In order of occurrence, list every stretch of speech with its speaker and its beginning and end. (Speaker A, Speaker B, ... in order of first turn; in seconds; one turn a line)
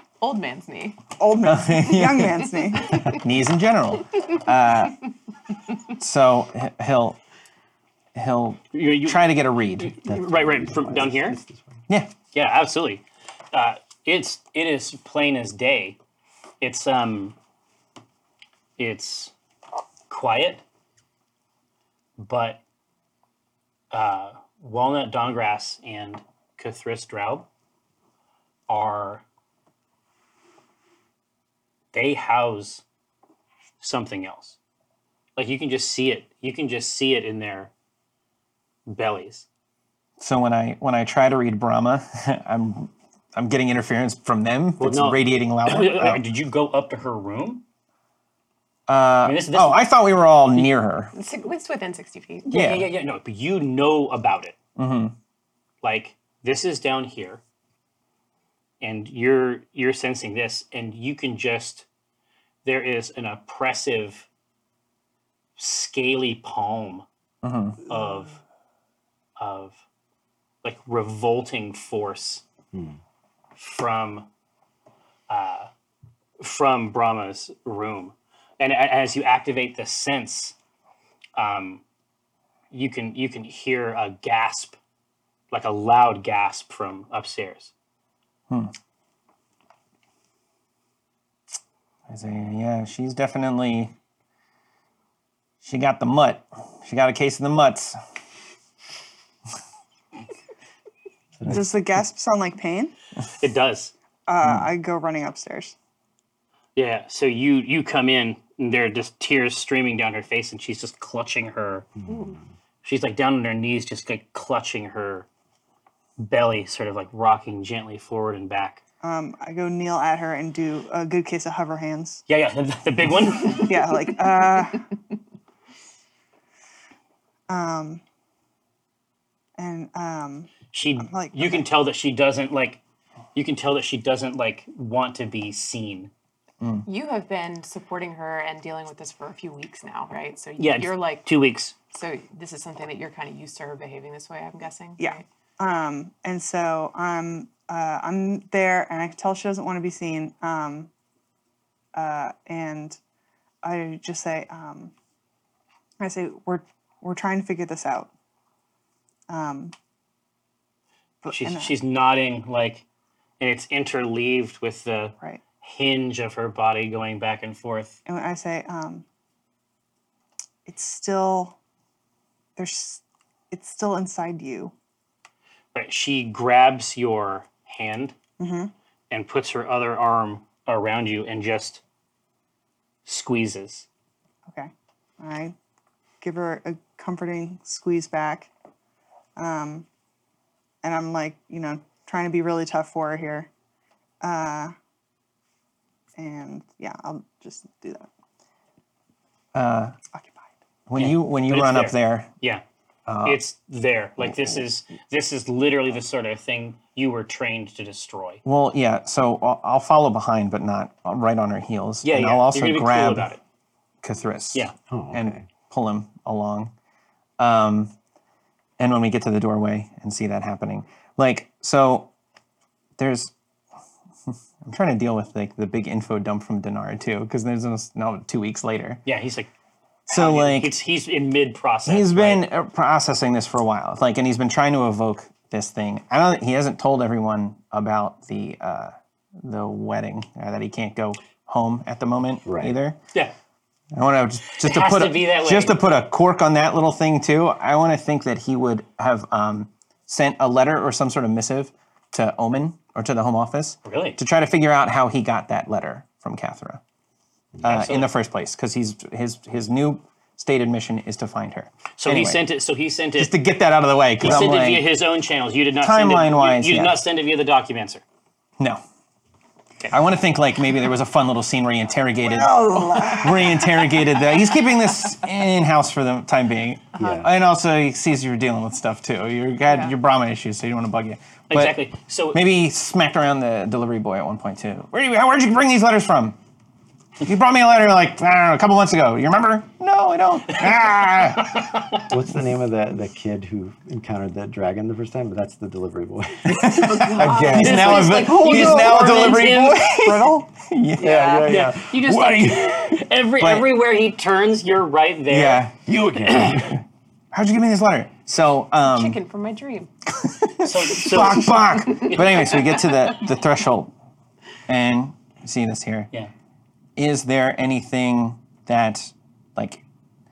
Speaker A: 0.2-1.0
Speaker B: 1.2-3.0
Speaker C: 1.4-5.0
Speaker C: 6.0-7.2
Speaker C: 8.1-9.9
Speaker D: 8.7-9.2
Speaker D: 9.8-11.4
Speaker E: 10.0-11.8
Speaker D: 12.3-16.0
Speaker D: 16.6-17.4
Speaker D: 18.8-19.3
Speaker D: 20.1-20.6
Speaker D: 22.2-22.6
Speaker D: 23.9-27.5
Speaker D: 28.7-29.2
Speaker D: 31.9-32.8
Speaker D: 33.8-34.6
Speaker D: 35.4-37.7
Speaker D: 38.9-39.5
Speaker C: 40.2-46.2
Speaker D: 44.8-47.6
Speaker C: 48.9-51.1
Speaker D: 49.2-49.9
Speaker A: 51.1-52.5
Speaker D: 52.5-54.6
Speaker C: 52.5-52.9
Speaker C: 54.8-55.1
Speaker D: 55.8-57.4
Speaker D: 58.8-61.9
Speaker D: 62.6-64.3
Speaker D: 65.6-67.0
Speaker C: 67.4-67.8
Speaker D: 67.8-68.4
Speaker D: 69.4-69.8
Speaker D: 70.6-72.4
Speaker E: 72.7-73.0
Speaker D: 73.5-74.3
Speaker D: 75.3-75.7
Speaker D: 76.4-80.5
Speaker D: 81.3-81.8
Speaker D: 82.7-84.8
Speaker D: 85.5-87.7
Speaker C: 92.1-93.9
Speaker C: 95.6-98.0
Speaker B: 101.5-102.9
Speaker D: 103.4-103.9
Speaker B: 104.3-105.7
Speaker D: 106.8-111.9
Speaker E: 112.0-112.4
Speaker D: 112.8-115.3
Speaker D: 116.2-118.8
Speaker B: 119.0-122.2
Speaker D: 122.3-123.8
Speaker B: 123.5-124.9
Speaker B: 127.5-128.0
Speaker B: 129.6-131.7
Speaker D: 130.7-132.8
Speaker D: 133.3-136.1
Speaker C: 136.6-136.8
Speaker A: 136.8-145.2
Speaker D: 140.6-141.7
Speaker B: 145.0-150.9
Speaker B: 151.9-153.0
Speaker B: 153.6-154.9
Speaker B: 156.0-158.1
Speaker B: 159.3-159.7
Speaker B: 161.2-161.7
Speaker D: 161.3-162.8
Speaker D: 163.4-168.0
Speaker B: 168.1-169.0
Speaker B: 170.7-171.6
Speaker B: 172.6-174.7
Speaker D: 175.7-178.2
Speaker B: 178.4-178.7
Speaker D: 179.1-181.8
Speaker D: 183.1-183.9
Speaker B: 184.5-185.5
Speaker B: 186.2-188.5
Speaker B: 189.3-189.8
Speaker B: 190.8-193.5
Speaker B: 194.2-194.7
Speaker B: 196.2-198.1
Speaker C: 199.5-199.9
Speaker B: 200.1-200.5
Speaker C: 200.9-202.3
Speaker D: 200.9-202.6
Speaker C: 203.1-203.4
Speaker D: 203.2-208.4
Speaker C: 208.4-213.3
Speaker D: 212.0-213.4
Speaker C: 214.0-216.7
Speaker E: 214.9-215.4
Speaker C: 217.4-217.9
Speaker C: 218.8-222.1
Speaker C: 223.0-223.3
Speaker C: 224.3-229.0
Speaker D: 229.1-229.5
Speaker D: 230.1-232.4
Speaker C: 230.1-230.7
Speaker C: 231.8-243.0
Speaker E: 242.4-242.8
Speaker C: 243.9-256.8
Speaker D: 244.5-245.8
Speaker D: 253.8-254.2
Speaker E: 257.6-257.8
Speaker C: 257.6-262.4
Speaker D: 257.6-258.1
Speaker D: 262.0-263.3
Speaker C: 263.2-264.9
Speaker D: 264.2-268.0
Speaker C: 265.8-267.0
Speaker C: 269.9-281.8
Speaker B: 272.3-273.6
Speaker E: 277.0-277.3
Speaker D: 281.5-282.4
Speaker C: 282.3-286.4
Speaker C: 287.2-291.7
Speaker D: 291.5-292.0
Speaker E: 292.1-298.8
Speaker C: 296.4-301.4
Speaker A: 296.5-298.6
Speaker D: 297.6-299.9
Speaker B: 298.7-300.3
Speaker A: 301.0-301.8
Speaker E: 301.0-303.0
Speaker D: 301.4-305.7
Speaker C: 303.4-303.7
Speaker C: 305.3-305.7
Speaker E: 305.8-306.8
Speaker C: 307.3-309.2
Speaker A: 308.8-309.9
Speaker C: 310.1-313.9
Speaker D: 310.6-312.8
Speaker C: 314.7-316.1
Speaker C: 316.9-319.8